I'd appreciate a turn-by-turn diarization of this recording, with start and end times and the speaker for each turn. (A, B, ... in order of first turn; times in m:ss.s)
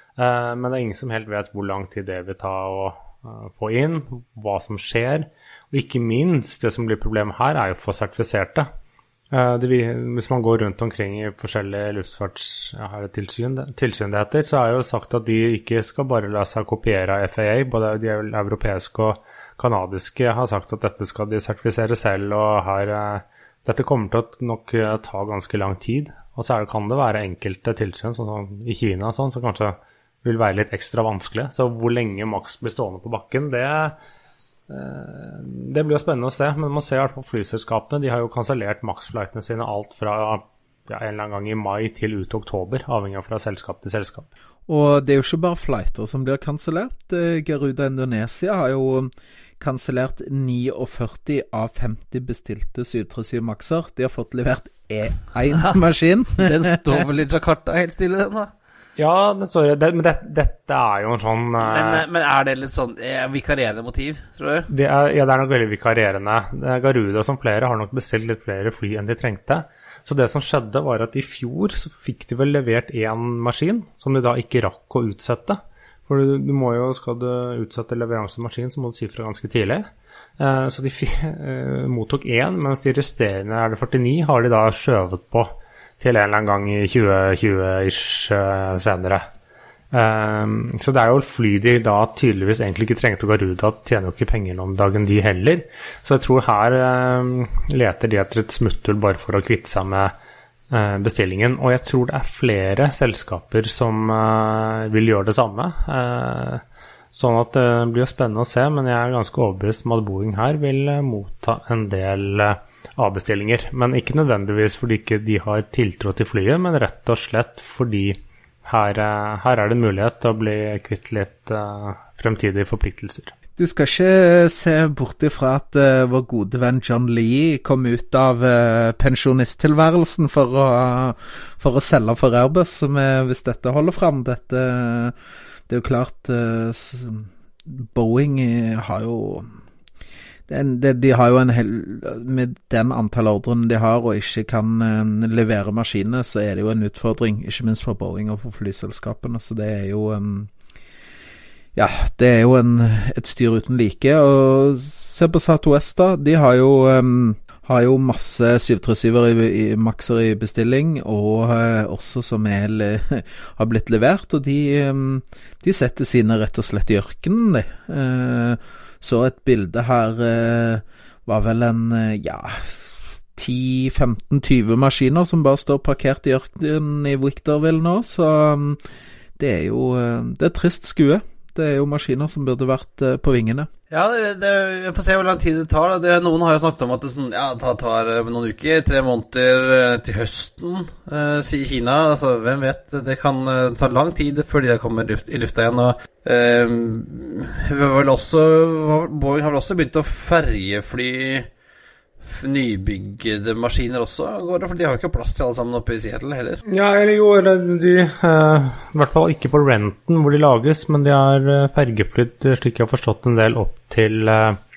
0:00.2-0:08.7 A
0:09.3-0:33.9 A
0:34.7-0:44.3 A
0:44.7-0:57.0 B
0:56.4-0:58.5 C
0:59.0-1:02.0 A
1:01.6-1:04.7 C
1:04.7-1:19.9 A
1:20.4-1:29.2 A
1:29.9-1:40.1 A
1:40.7-2:03.3 A
2:03.6-2:15.1 B
2:15.7-2:19.5 B
2:20.5-2:30.5 B
2:31.7-2:58.8 B
2:59.4-3:03.7 B
3:03.9-3:21.5 C
3:22.2-3:26.6 C
3:26.7-3:34.6 A